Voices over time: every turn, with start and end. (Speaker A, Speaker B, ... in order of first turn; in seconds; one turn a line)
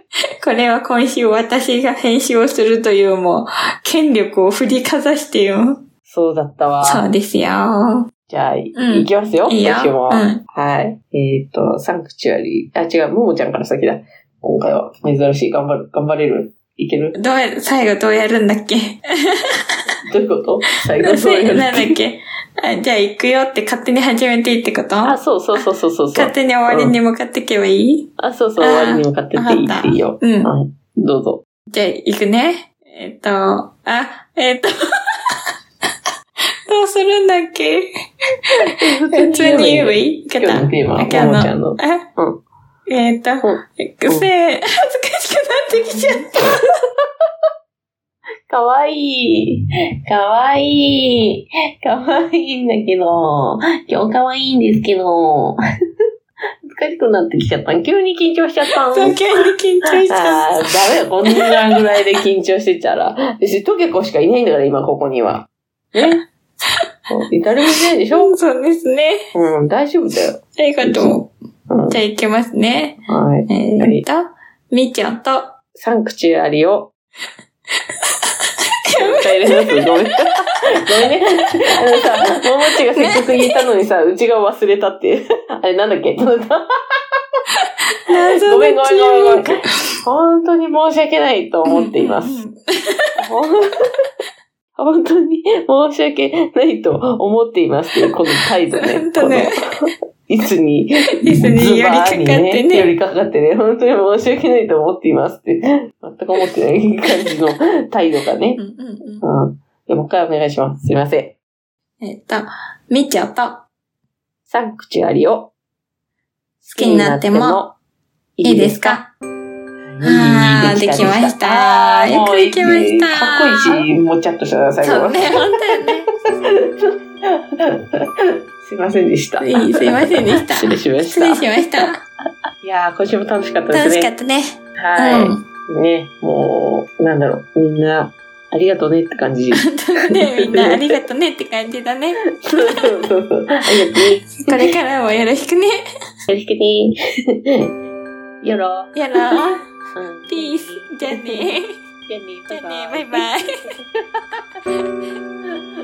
Speaker A: 0.4-5.8
Speaker B: 6.0-7.0
Speaker A: 6.8-8.1
Speaker B: 8.3-17.2
Speaker A: 8.7-10.4
Speaker A: 17.1-19.7
Speaker B: 20.1-22.0
Speaker A: 21.0-30.5
Speaker B: 25.0-26.9
Speaker B: 28.2-31.4
Speaker A: 31.7-34.7
Speaker A: 36.7-37.9
Speaker B: 38.6-42.4
Speaker A: 39.1-42.0
Speaker A: 42.9-46.6
Speaker B: 43.4-44.3
Speaker B: 45.9-46.2
Speaker B: 48.5-55.6
Speaker B: 56.7-59.2
Speaker A: 58.9-60.5
Speaker B: 60.1-66.2
Speaker A: 61.3-61.6
Speaker A: 66.7-67.1
Speaker B: 67.1-68.3
Speaker A: 68.1-69.2
Speaker B: 69.3-72.0
Speaker A: 70.5-71.3
Speaker A: 71.9-75.5
Speaker B: 73.1-74.0
Speaker B: 75.7-76.9
Speaker A: 78.8-79.9
Speaker B: 79.0-86.6
Speaker A: 83.0-83.6
Speaker A: 88.1-90.0
Speaker B: 88.3-89.5
Speaker B: 90.0-92.4
Speaker A: 91.7-93.2
Speaker B: 93.2-93.8
Speaker B: 94.8-108.6
Speaker A: 98.8-99.6
Speaker A: 101.2-102.9
Speaker A: 108.6-109.2
Speaker B: 109.2-111.4
Speaker A: 112.0-113.6
Speaker B: 114.5-115.5
Speaker B: 116.6-117.7
Speaker A: 116.8-117.6
Speaker B: 118.4-119.0
Speaker A: 118.4-119.1
Speaker B: 119.9-125.4
Speaker A: 120.0-123.8
Speaker A: 124.8-126.1
Speaker B: 126.4-128.1
Speaker B: 128.6-131.9
Speaker A: 129.4-132.0
Speaker B: 132.6-134.1
Speaker A: 133.7-135.4
Speaker B: 134.8-140.8
Speaker A: 139.6-143.1
Speaker B: 142.4-144.4
Speaker A: 143.9-145.7
Speaker B: 146.3-147.7
Speaker B: 148.4-149.4
Speaker A: 148.9-149.7
Speaker B: 149.9-151.4
Speaker A: 150.3-151.7
Speaker B: 152.1-154.6
Speaker A: 152.5-153.6